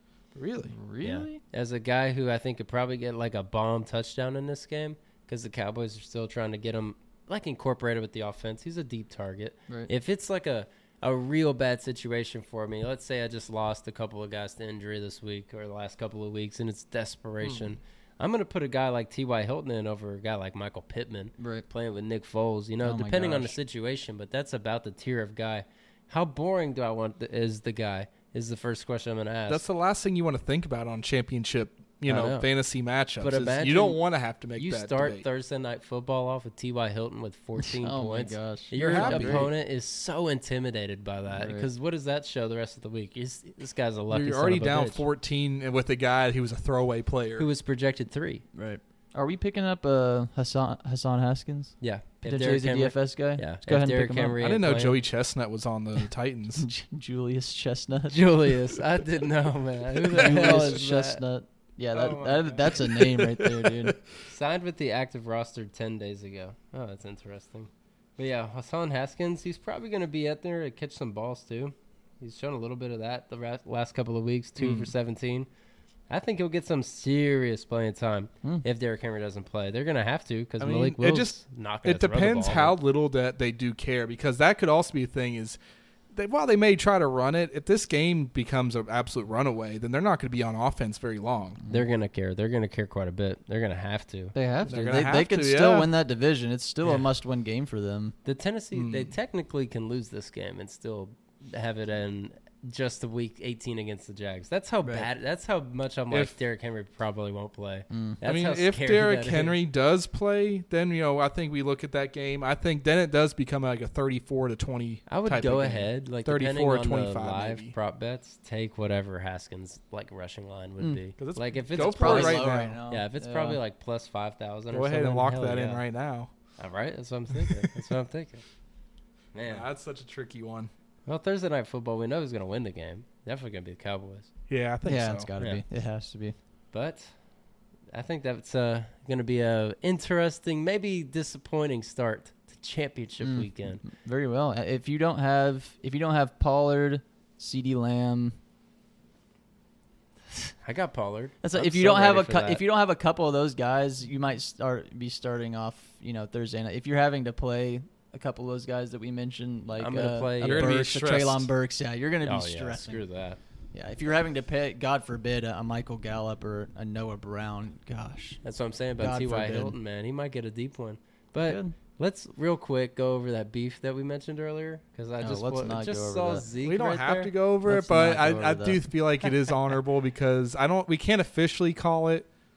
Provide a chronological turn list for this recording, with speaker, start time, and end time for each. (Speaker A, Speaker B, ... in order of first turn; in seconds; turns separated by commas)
Speaker A: 0.3-0.7, Speaker B: 0.6-1.4, Speaker C: 1.0-29.6, Speaker B: 21.4-21.6, Speaker B: 22.8-23.6, Speaker A: 29.5-35.2, Speaker C: 32.0-32.5, Speaker C: 33.2-34.0, Speaker C: 34.5-45.0, Speaker B: 37.6-39.5, Speaker A: 38.7-39.5, Speaker B: 41.3-41.7, Speaker A: 44.1-47.5, Speaker C: 47.4-48.4, Speaker B: 48.5-54.4, Speaker C: 51.8-55.0, Speaker A: 54.4-56.7, Speaker B: 56.6-58.2, Speaker C: 58.1-61.2, Speaker B: 60.0-64.0, Speaker C: 61.9-63.4, Speaker C: 64.2-75.5, Speaker A: 74.6-74.9, Speaker C: 76.1-82.8, Speaker A: 80.6-85.6, Speaker A: 86.1-91.6, Speaker C: 91.7-94.3, Speaker B: 94.3-98.1, Speaker A: 94.7-95.9, Speaker C: 98.2-109.6, Speaker A: 98.7-99.1, Speaker B: 107.9-108.2, Speaker A: 108.2-117.7, Speaker C: 115.1-125.8, Speaker A: 121.2-122.8, Speaker B: 121.8-123.6, Speaker A: 124.7-126.3, Speaker C: 126.6-128.4, Speaker A: 127.4-127.7, Speaker C: 129.3-129.6, Speaker A: 129.4-130.7, Speaker C: 131.1-134.3, Speaker A: 134.5-135.3, Speaker B: 134.8-136.3, Speaker C: 136.7-137.1, Speaker C: 137.9-143.8, Speaker B: 143.2-148.3, Speaker C: 150.6-152.6, Speaker B: 151.4-163.1, Speaker C: 159.8-160.7, Speaker A: 160.4-161.5, Speaker C: 162.2-163.4, Speaker B: 163.7-168.4, Speaker C: 168.4-177.3, Speaker B: 169.0-169.8, Speaker B: 171.4-171.7, Speaker B: 175.2-176.4, Speaker A: 176.6-182.3, Speaker B: 177.7-178.8